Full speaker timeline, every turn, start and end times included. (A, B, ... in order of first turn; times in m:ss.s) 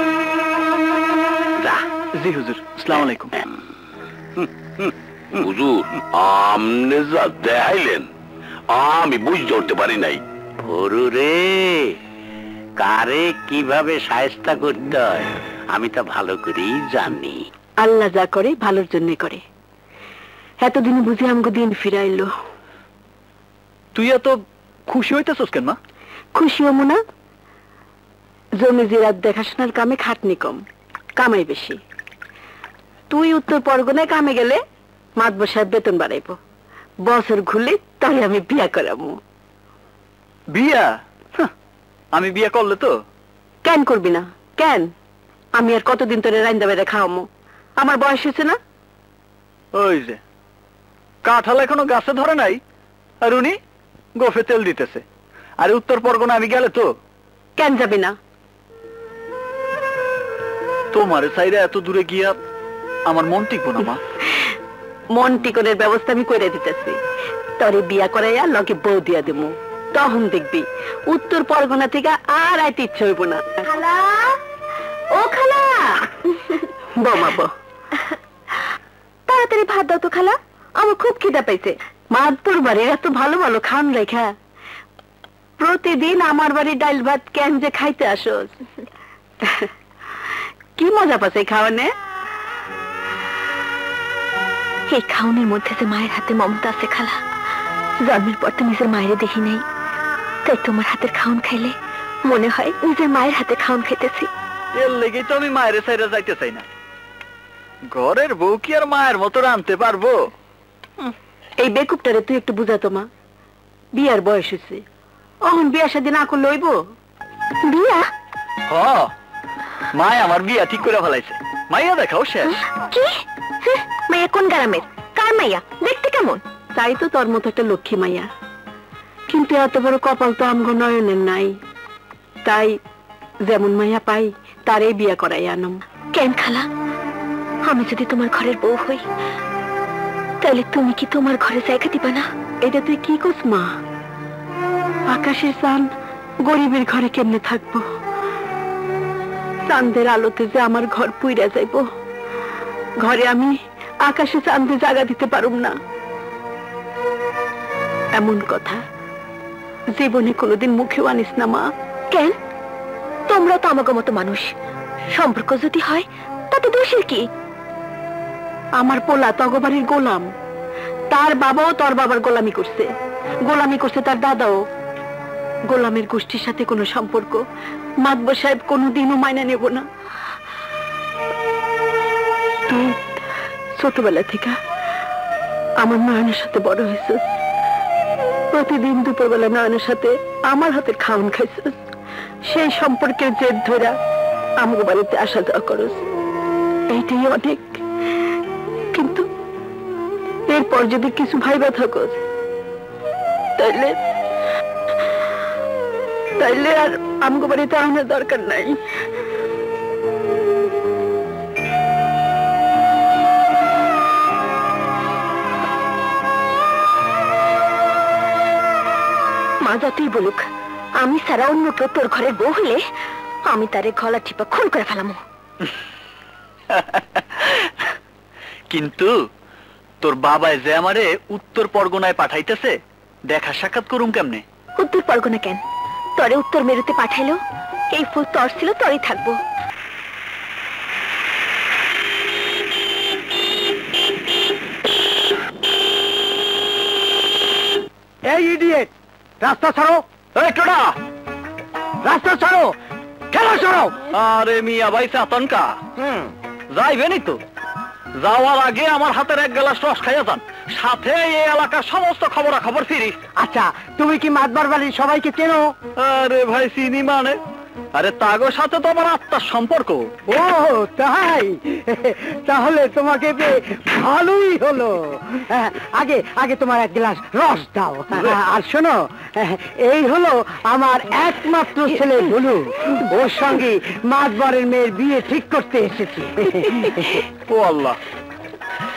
0:02.1-0:03.4 A
0:05.4-0:08.1 B
0:08.7-0:10.2 B
0:10.6-0:12.0 C
0:12.8-0:17.4 C
0:17.8-0:19.4 D
0:20.6-0:22.3 D
0:23.9-0:25.8 A
0:26.4-0:27.0 D
0:28.6-0:30.6 D
0:31.2-0:31.8 D
0:33.1-0:34.6 D
0:35.2-0:36.4 D
0:37.0-0:39.2 D
0:40.5-0:41.5 A
0:42.1-0:43.0 A
0:43.6-0:44.9 D
0:45.5-0:47.2 D
0:47.8-0:48.6 D
0:49.8-0:50.2 A
0:51.2-0:52.6 A
0:53.2-0:53.6 A
0:54.2-0:55.0 A
0:55.6-0:56.9 A
0:57.6-0:58.1 D
1:00.9-1:02.4 A
1:03.1-1:04.0 A
1:05.1-1:07.0 D
1:07.6-1:13.4 D
1:17.0-1:17.5 D
1:19.3-1:21.7 E
1:22.1-1:24.3 D
1:25.6-1:28.5 D
1:30.8-1:31.9 D
1:34.9-1:37.2 E
1:38.0-1:39.6 E
1:40.4-1:44.3 E
1:44.8-1:46.6 A
1:47.9-1:50.2 A
1:51.6-1:53.1 D
1:53.9-1:54.8 D
1:55.4-1:56.8 D
1:57.6-1:58.1 E
1:58.7-1:59.1 A
1:59.9-2:02.6 A
2:02.9-2:06.4 E
2:06.8-2:08.3 D
2:09.3-2:11.5 D
2:12.4-2:12.8 D
2:13.4-2:15.8 D
2:16.1-2:16.7 E
2:17.6-2:19.0 E
2:20.4-2:22.3 E
2:22.6-2:23.7 D
2:25.1-2:25.9 D
2:26.4-2:27.8 D
2:29.7-2:31.8 D
2:33.0-2:35.7 D
2:38.1-2:38.8 D
2:39.9-2:41.6 D
2:42.1-2:42.4 E
2:43.3-2:44.5 E
2:45.1-2:47.3 E
2:48.8-2:50.3 D
2:51.1-2:52.9 D
2:53.4-2:54.6 D
2:55.7-2:57.4 D
2:58.0-2:59.8 D
3:02.7-3:03.0 D
3:03.8-3:04.6 D
3:05.8-3:07.3 D
3:08.5-3:11.7 D
3:12.5-3:13.9 D
3:14.6-3:16.0 D
3:16.9-3:17.6 D
3:18.9-3:19.2 D
3:20.5-3:22.2 D
3:23.6-3:23.9 D
3:26.4-3:28.7 D
3:39.6-3:40.4 E
3:41.0-3:42.8 E
3:43.5-3:45.2 E
3:46.7-3:47.7 A
3:48.7-3:49.1 A
3:50.0-3:52.7 A
3:53.3-3:54.4 A
3:54.8-3:55.6 E
3:56.2-3:57.4 E
3:57.9-3:59.4 E
4:08.2-4:08.9 F
4:09.4-4:10.0 F
4:10.3-4:11.0 A
4:12.0-4:12.7 F
4:13.3-4:13.9 F
4:14.1-4:15.8 A
4:16.7-4:17.4 A
4:18.2-4:23.2 A
4:23.4-4:25.7 F
4:26.0-4:27.4 A
4:28.0-4:30.1 A
4:30.3-4:46.7 F
4:46.8-4:48.0 A